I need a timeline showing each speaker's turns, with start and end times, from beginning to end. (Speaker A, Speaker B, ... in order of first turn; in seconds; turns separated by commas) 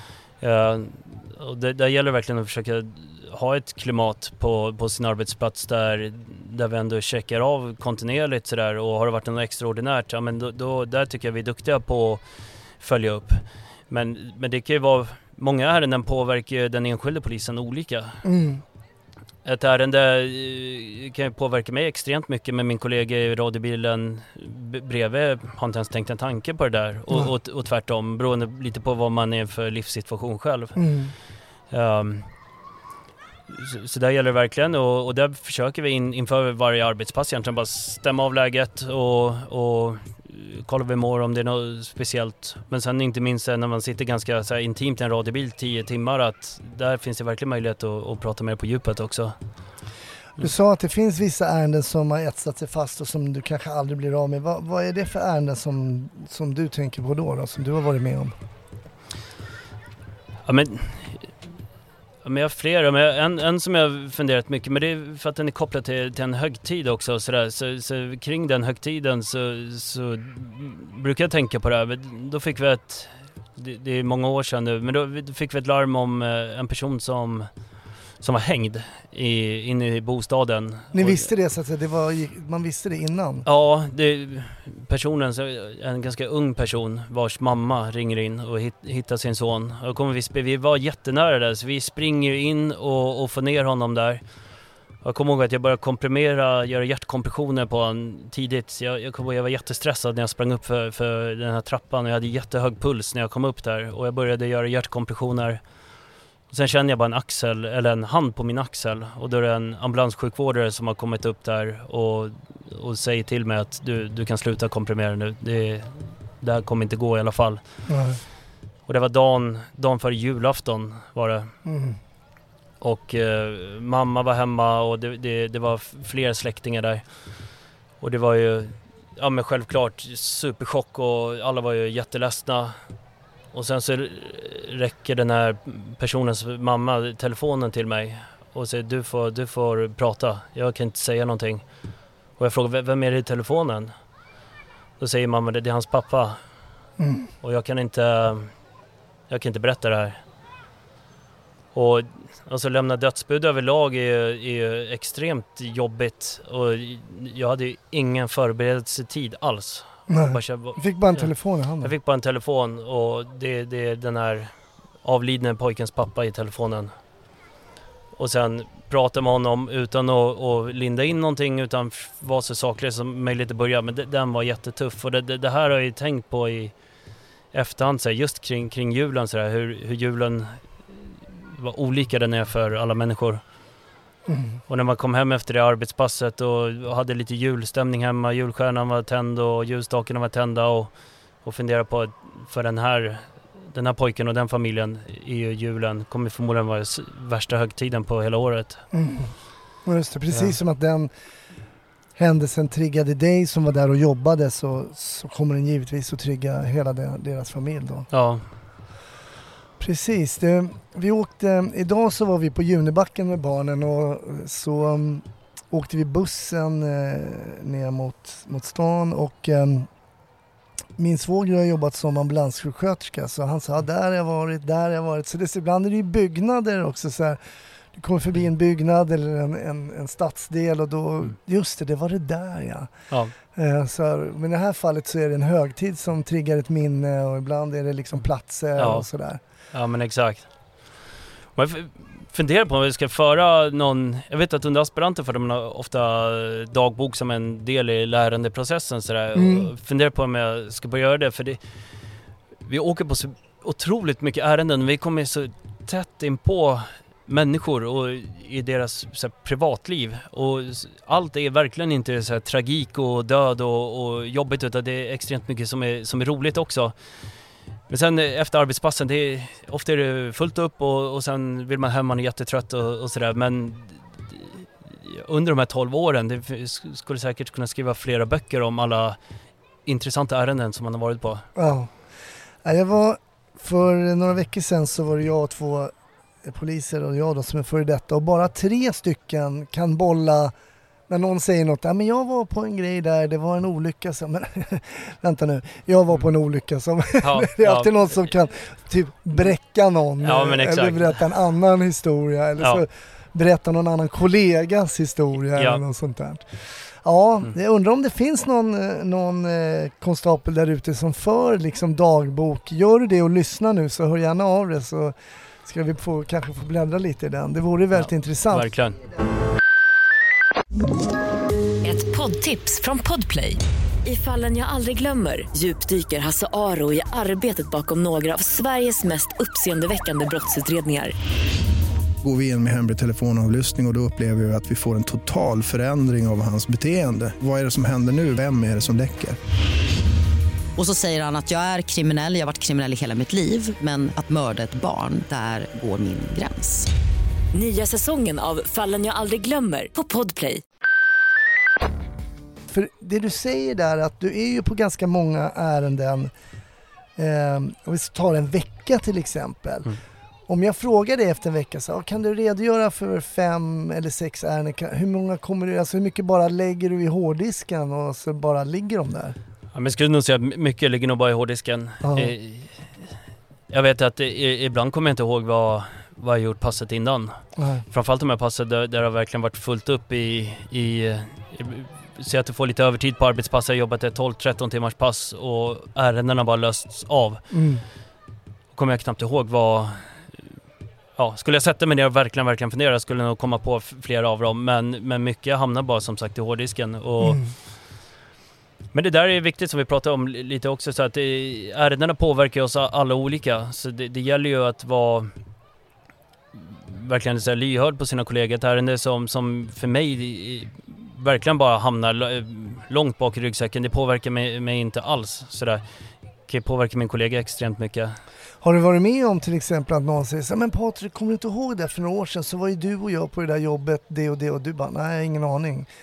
Speaker A: 0.4-12.2, Speaker A: 12.8-18.2, Speaker B: 18.2-18.6, Speaker A: 19.4-30.8, Speaker B: 30.8-31.1, Speaker A: 31.7-32.3, Speaker A: 33.5-49.3, Speaker B: 50.4-58.3, Speaker A: 60.5-61.3, Speaker A: 62.2-77.5, Speaker A: 78.2-81.3, Speaker B: 80.9-83.4, Speaker A: 83.4-94.2, Speaker A: 95.0-105.6, Speaker A: 106.5-117.6, Speaker B: 117.9-118.2, Speaker A: 118.8-121.5, Speaker B: 121.6-122.0, Speaker A: 122.8-127.1, Speaker A: 128.0-132.8, Speaker A: 133.5-141.6, Speaker A: 142.4-143.9, Speaker A: 145.0-146.4, Speaker B: 147.0-147.3, Speaker A: 147.4-148.5, Speaker A: 149.3-150.2, Speaker A: 151.7-166.9, Speaker B: 160.1-161.9, Speaker A: 168.1-176.7, Speaker A: 177.5-183.4, Speaker B: 184.3-184.6, Speaker A: 184.7-198.8, Speaker B: 198.9-201.1, Speaker A: 200.3-200.6, Speaker B: 202.2-208.1, Speaker A: 208.1-208.4, Speaker B: 209.8-219.9, Speaker B: 221.0-227.4, Speaker B: 227.9-232.9, Speaker B: 233.5-239.4, Speaker A: 238.8-239.1, Speaker A: 239.7-240.5, Speaker A: 241.6-251.6, Speaker B: 249.3-249.7, Speaker A: 252.7-266.9, Speaker A: 267.9-279.2, Speaker A: 279.9-281.5, Speaker B: 281.6-281.9, Speaker B: 282.6-290.5, Speaker B: 291.1-318.7, Speaker A: 297.2-297.9, Speaker A: 300.2-301.2, Speaker A: 302.6-302.8, Speaker A: 305.6-305.8, Speaker A: 317.9-318.9, Speaker C: 321.8-331.1, Speaker D: 332.2-339.4, Speaker E: 340.8-346.9, Speaker C: 347.5-350.6, Speaker B: 352.7-356.3, Speaker B: 357.2-359.9, Speaker B: 360.5-369.4, Speaker A: 369.7-372.9, Speaker B: 372.0-372.3, Speaker A: 373.7-387.4, Speaker B: 377.6-377.8, Speaker B: 387.5-387.8, Speaker A: 388.7-390.3, Speaker A: 391.2-397.4, Speaker B: 397.2-397.5, Speaker A: 398.9-405.3, Speaker A: 406.6-415.8, Speaker A: 416.5-418.1, Speaker B: 418.6-425.9